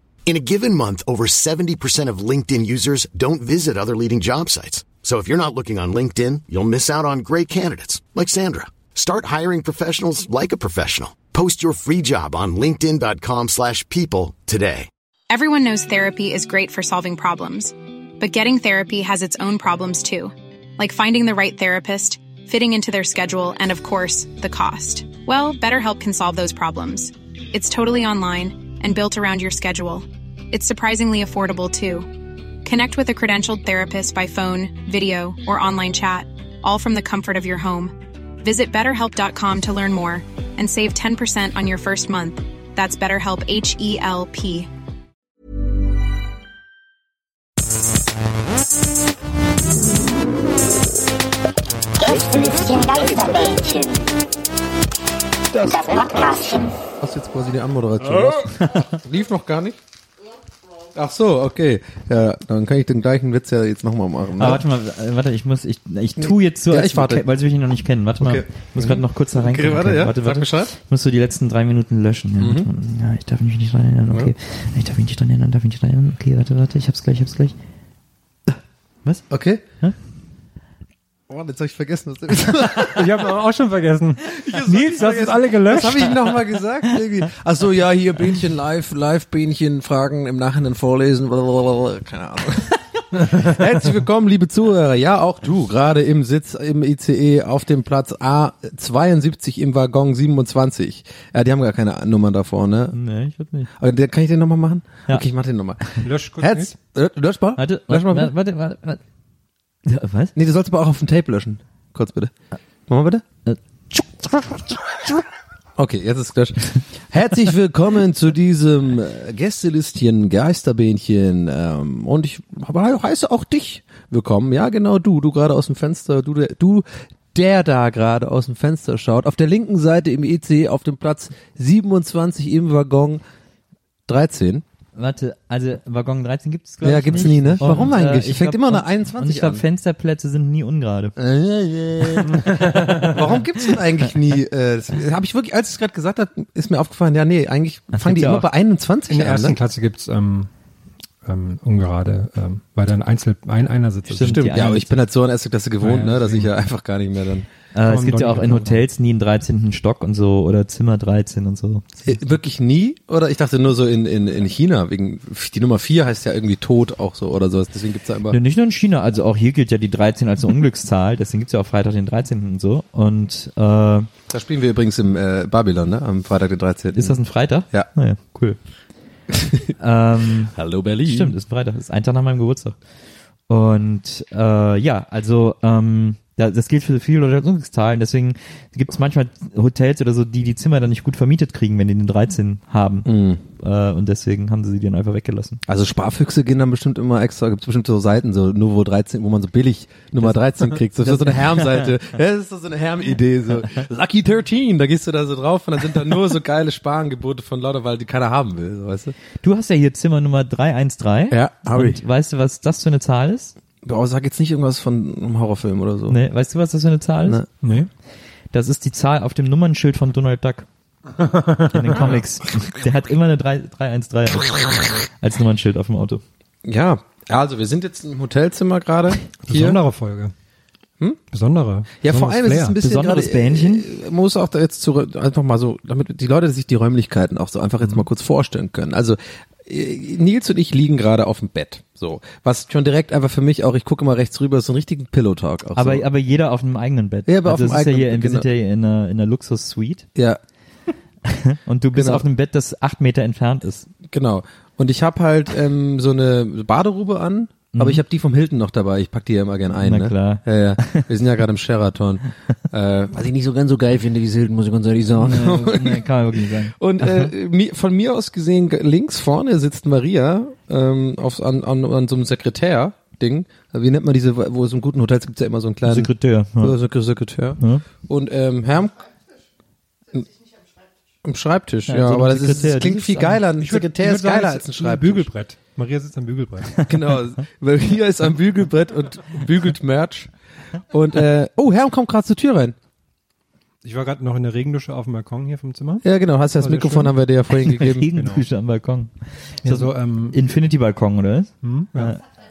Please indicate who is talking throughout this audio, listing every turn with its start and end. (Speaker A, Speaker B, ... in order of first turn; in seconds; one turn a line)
Speaker A: 0.3-14.9
Speaker B: 15.3-32.1
Speaker B: 32.6-44.7
Speaker C: 52.0-54.1
Speaker C: 55.5-56.8
Speaker D: 57.0-59.8
Speaker D: 60.9-64.6
Speaker E: 64.4-77.5
Speaker D: 66.2-67.3
Speaker D: 68.2-70.7
Speaker D: 72.4-72.7
Speaker D: 79.3-79.6
Speaker D: 81.3-83.4
Speaker F: 82.8-86.2
Speaker D: 84.2-103.0
Speaker E: 102.9-103.7
Speaker D: 103.8-105.8
Speaker F: 106.0-106.7
Speaker D: 106.4-108.3
Speaker E: 107.6-109.0
Speaker E: 109.9-110.3
Speaker D: 110.3-112.3
Speaker D: 112.9-113.2
Speaker E: 113.5-115.2
Speaker D: 115.8-133.2
Speaker D: 134.1-134.6
Speaker E: 134.9-141.2
Speaker D: 136.8-139.6
Speaker F: 137.3-137.9
Speaker D: 141.2-149.6
Speaker F: 142.3-143.2
Speaker E: 147.9-148.5
Speaker F: 149.1-150.5
Speaker F: 151.2-154.6
Speaker E: 154.1-154.9
Speaker D: 154.2-157.5
Speaker F: 155.8-156.5
Speaker E: 157.7-162.1
Speaker F: 157.8-158.8
Speaker D: 162.1-168.4
Speaker E: 168.3-174.1
Speaker D: 174.3-177.2
Speaker E: 176.9-178.6
Speaker D: 179.3-179.7
Speaker E: 179.8-182.8
Speaker D: 180.5-181.3
Speaker E: 183.5-195.6
Speaker D: 193.1-193.4
Speaker D: 195.7-209.2
Speaker E: 200.2-202.0
Speaker E: 209.4-213.5
Speaker D: 211.3-212.0
Speaker D: 213.8-216.2
Speaker E: 216.1-217.4
Speaker F: 217.6-217.9
Speaker E: 218.5-220.7
Speaker F: 221.2-222.2
Speaker E: 221.7-226.2
Speaker D: 226.6-229.8
Speaker F: 229.4-230.3
Speaker F: 231.3-232.8
Speaker D: 232.0-246.1
Speaker E: 232.8-233.9
Speaker E: 245.8-250.1
Speaker D: 247.3-248.5
Speaker D: 250.2-250.4
Speaker E: 251.2-253.9
Speaker D: 251.9-252.2
Speaker D: 254.1-279.1
Speaker E: 257.7-258.0
Speaker E: 259.8-261.1
Speaker E: 265.2-267.3
Speaker E: 275.9-276.8
Speaker E: 277.6-277.9
Speaker D: 281.2-285.3
Speaker E: 281.9-283.4
Speaker F: 283.6-286.8
Speaker D: 286.8-290.3
Speaker D: 290.9-292.8
Speaker F: 293.8-296.1
Speaker D: 296.0-298.1
Speaker F: 296.6-297.1
Speaker E: 297.5-299.1
Speaker F: 298.0-298.4
Speaker E: 299.6-302.2
Speaker F: 299.6-300.4
Speaker F: 301.6-302.1